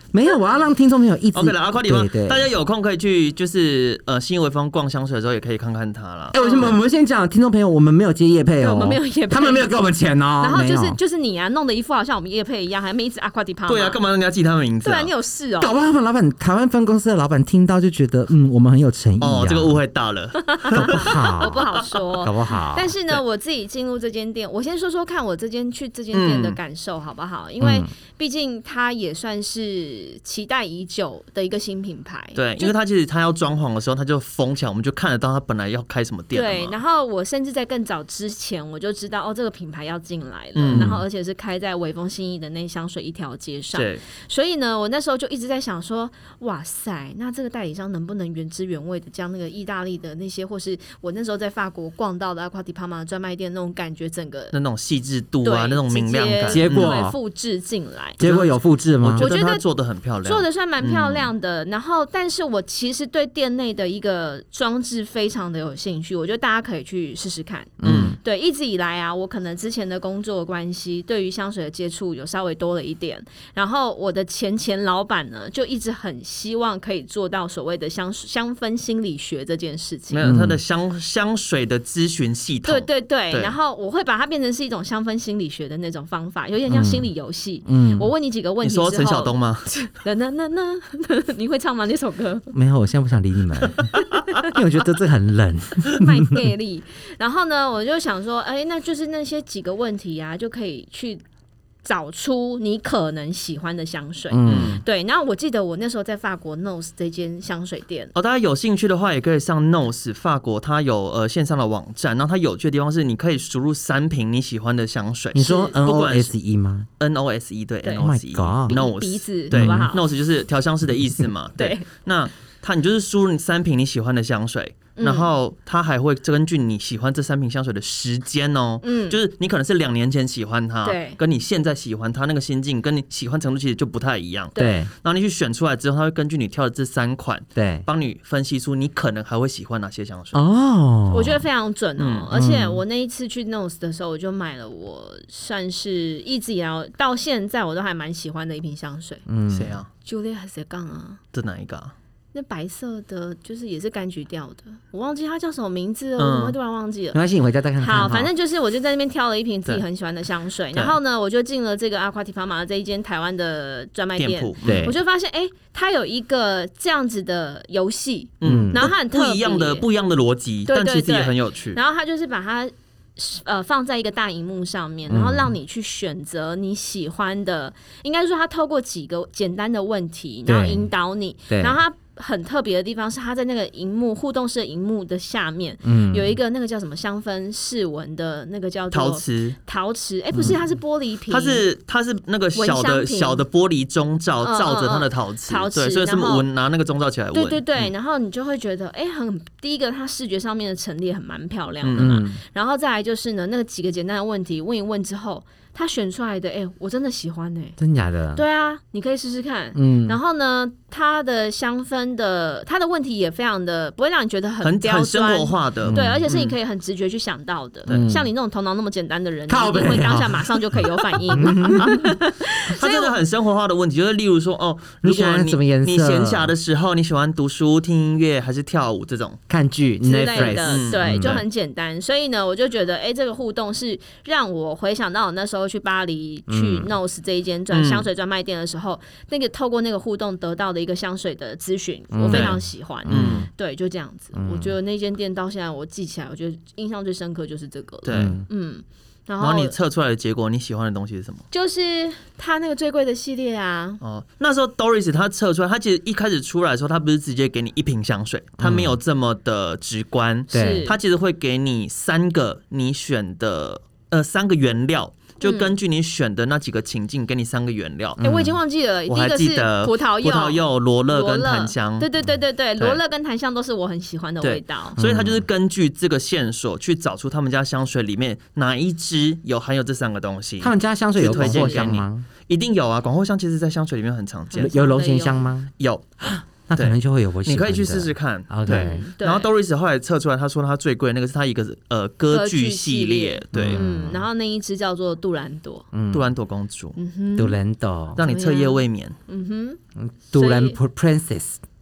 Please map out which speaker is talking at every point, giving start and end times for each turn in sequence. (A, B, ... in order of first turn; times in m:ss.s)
0:00.1-0:02.5 A
0:01.3-0:06.6 B
0:06.3-0:11.0 A
0:06.4-0:06.8 C
0:08.6-0:09.8 C
0:10.4-0:14.0 C
0:13.7-0:15.1 B
0:14.8-0:15.7 C
0:15.6-0:19.8 A
0:19.2-0:21.5 B
0:20.5-0:32.7 C
0:20.7-0:22.9 A
0:26.1-0:26.6 B
0:27.6-0:27.9 A
0:32.3-0:36.8 B
0:36.3-0:54.6 C
0:40.6-0:41.0 B
0:43.7-0:44.0 B
0:54.5-0:57.0 B
0:55.4-0:58.2 C
0:56.5-0:57.2 A
0:58.2-0:59.3 A
0:58.2-0:58.5 B
0:59.0-1:01.3 B
0:59.2-0:59.6 C
1:00.2-1:20.3 C
1:07.8-1:08.2 A
1:07.8-1:08.2 B
1:20.1-1:23.6 B
1:20.2-1:20.6 A
1:22.6-1:32.5 C
1:26.7-1:27.1 A
1:27.6-1:28.1 A
1:28.6-1:29.7 B
1:32.5-1:33.9 A
1:34.4-1:36.4 A
1:35.9-1:41.2 C
1:41.8-1:48.1 C
1:44.3-1:44.8 A
1:44.4-1:44.8 B
1:48.1-1:56.3 B
1:55.3-1:56.9 A
1:55.4-1:55.7 C
1:57.0-2:20.4 B
1:57.9-1:58.8 A
1:58.7-2:00.0 C
1:59.5-1:59.9 A
2:01.6-2:01.9 C
2:05.0-2:05.3 C
2:08.8-2:09.2 C
2:10.8-2:11.2 C
2:14.5-2:14.8 C
2:14.6-2:14.9 A
2:17.6-2:17.8 A
2:20.3-2:21.4 A
2:21.1-2:29.2 C
2:22.0-2:22.3 B
2:22.3-2:22.8 A
2:29.3-2:29.8 A
2:29.5-2:29.9 B
2:30.0-2:31.2 C
2:31.3-2:31.9 B
2:32.3-2:37.2 C
2:36.2-2:36.6 B
2:37.1-2:38.3 A
2:37.8-2:49.8 C
2:44.2-2:44.9 B
2:44.6-2:45.0 A
2:48.4-2:51.8 B
2:48.4-2:48.8 A
2:50.7-3:11.6 C
2:55.1-2:55.5 A
3:00.5-3:00.9 A
3:01.5-3:01.8 A
3:05.8-3:06.3 A
3:08.9-3:09.6 B
3:11.3-3:17.9 B
3:12.6-3:13.4 C
3:14.4-3:16.4 C
3:17.3-3:27.8 C
3:21.8-3:22.2 B
3:22.0-3:22.4 A
3:27.8-3:28.4 A
3:28.3-3:43.1 C
3:29.7-3:30.2 A
3:34.6-3:36.6 B
3:35.8-3:36.2 A
3:37.9-3:38.3 A
3:39.5-3:42.0 A
3:42.7-3:49.4 B
3:45.0-3:46.5 A
3:49.5-3:51.4 A
3:50.0-4:09.7 C
3:50.3-3:51.4 B
3:56.5-3:56.9 A
3:57.7-3:58.0 B
4:02.1-4:03.5 A
4:02.3-4:03.5 B
4:04.3-4:04.7 A
4:08.0-4:08.4 B
4:08.1-4:08.4 A
4:09.4-4:11.4 B
4:11.5-4:14.0 C
4:14.0-4:28.2 B
4:18.6-4:19.0 A
4:20.5-4:20.9 A
4:20.5-4:21.0 C
4:25.4-4:25.7 C
4:28.2-4:28.6 A
4:28.2-4:35.0 C
4:29.1-4:32.1 B
4:34.4-4:44.7 B
4:35.0-4:35.4 A
4:40.6-4:42.2 A
4:41.2-4:41.9 C
4:44.5-4:45.5 C
4:44.6-4:49.0 A
4:45.8-4:46.0 B
4:46.7-4:53.8 B
4:48.6-4:49.5 C
4:52.3-4:55.8 C
4:53.5-4:54.2 A
4:55.9-4:56.3 A
4:56.1-4:57.0 B
4:57.0-4:57.6 C
4:57.4-4:58.2 A
4:58.2-4:59.2 B
4:58.2-4:59.8 C
5:00.0-5:01.6 A
5:00.3-5:00.8 C